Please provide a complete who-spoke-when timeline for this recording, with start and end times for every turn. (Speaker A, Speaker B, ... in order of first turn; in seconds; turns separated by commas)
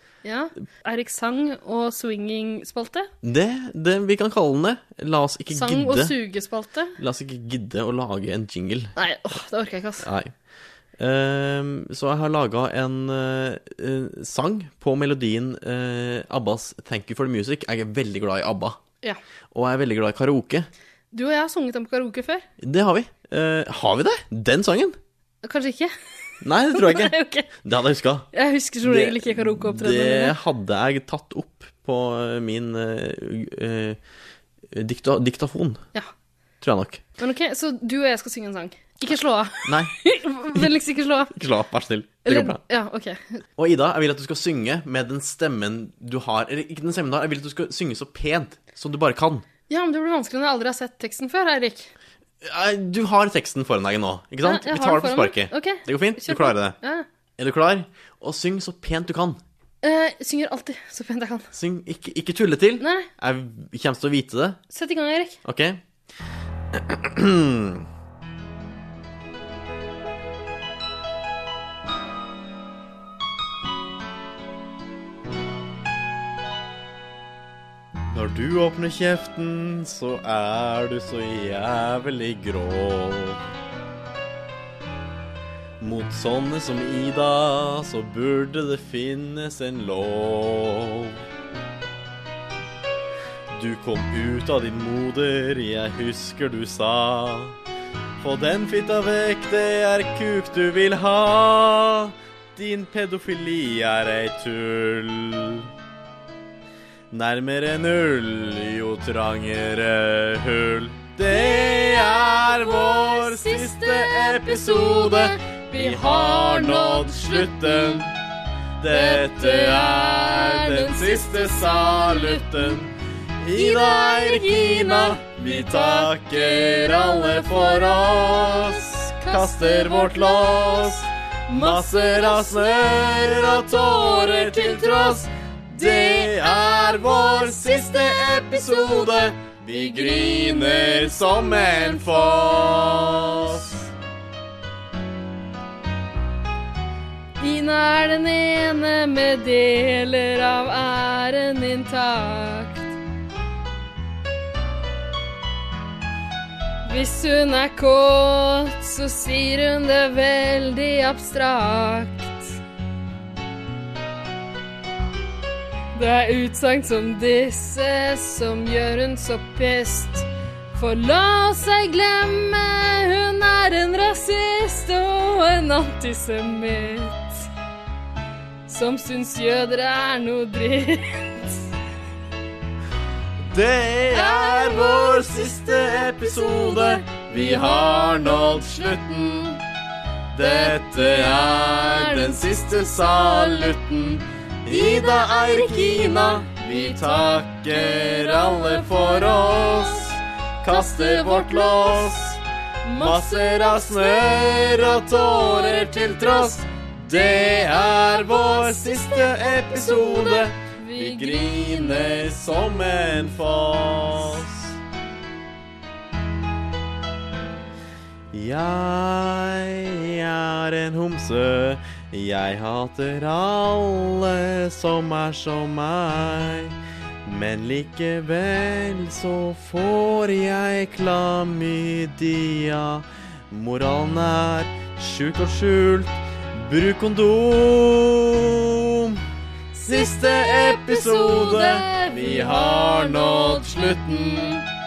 Speaker A: 0.2-3.1, Speaker B: 3.2-6.2, Speaker A: 5.5-7.0, Speaker B: 7.0-8.9, Speaker A: 9.0-10.1, Speaker B: 10.0-10.3, Speaker B: 11.0-18.8, Speaker B: 19.5-20.7, Speaker A: 21.1-22.4, Speaker B: 22.6-25.0, Speaker A: 25.4-25.9, Speaker B: 26.4-28.3, Speaker A: 26.7-27.5, Speaker A: 28.3-30.4, Speaker B: 28.8-34.0, Speaker B: 34.7-35.8, Speaker B: 36.6-37.0, Speaker A: 37.2-41.3, Speaker B: 39.7-39.9, Speaker B: 41.3-42.6, Speaker A: 42.3-43.4, Speaker B: 43.6-49.5, Speaker A: 49.7-51.9, Speaker B: 52.4-56.8, Speaker A: 54.4-57.0, Speaker B: 57.4-59.4, Speaker A: 59.8-61.5, Speaker B: 61.5-64.6, Speaker A: 62.8-63.1, Speaker A: 64.7-65.4, Speaker B: 65.5-65.8, Speaker B: 66.7-67.9, Speaker B: 78.1-83.4, Speaker B: 85.8-91.2, Speaker B: 93.5-97.6, Speaker B: 98.2-105.7, Speaker B: 107.1-118.2, Speaker A: 111.3-118.0, Speaker B: 118.8-143.8, Speaker A: 118.9-122.8, Speaker A: 123.5-142.8, Speaker A: 147.4-152.9, Speaker A: 156.8-162.6, Speaker A: 165.9-177.5, Speaker A: 178.7-181.7, Speaker B: 183.5-189.6, Speaker A: 184.1-189.6, Speaker B: 190.3-202.4, Speaker A: 190.4-194.0, Speaker A: 194.7-200.1, Speaker A: 200.7-202.3, Speaker A: 202.8-206.6, Speaker B: 202.9-214.7, Speaker A: 207.2-213.3, Speaker B: 218.3-239.2, Speaker A: 239.7-244.6, Speaker B: 239.9-244.6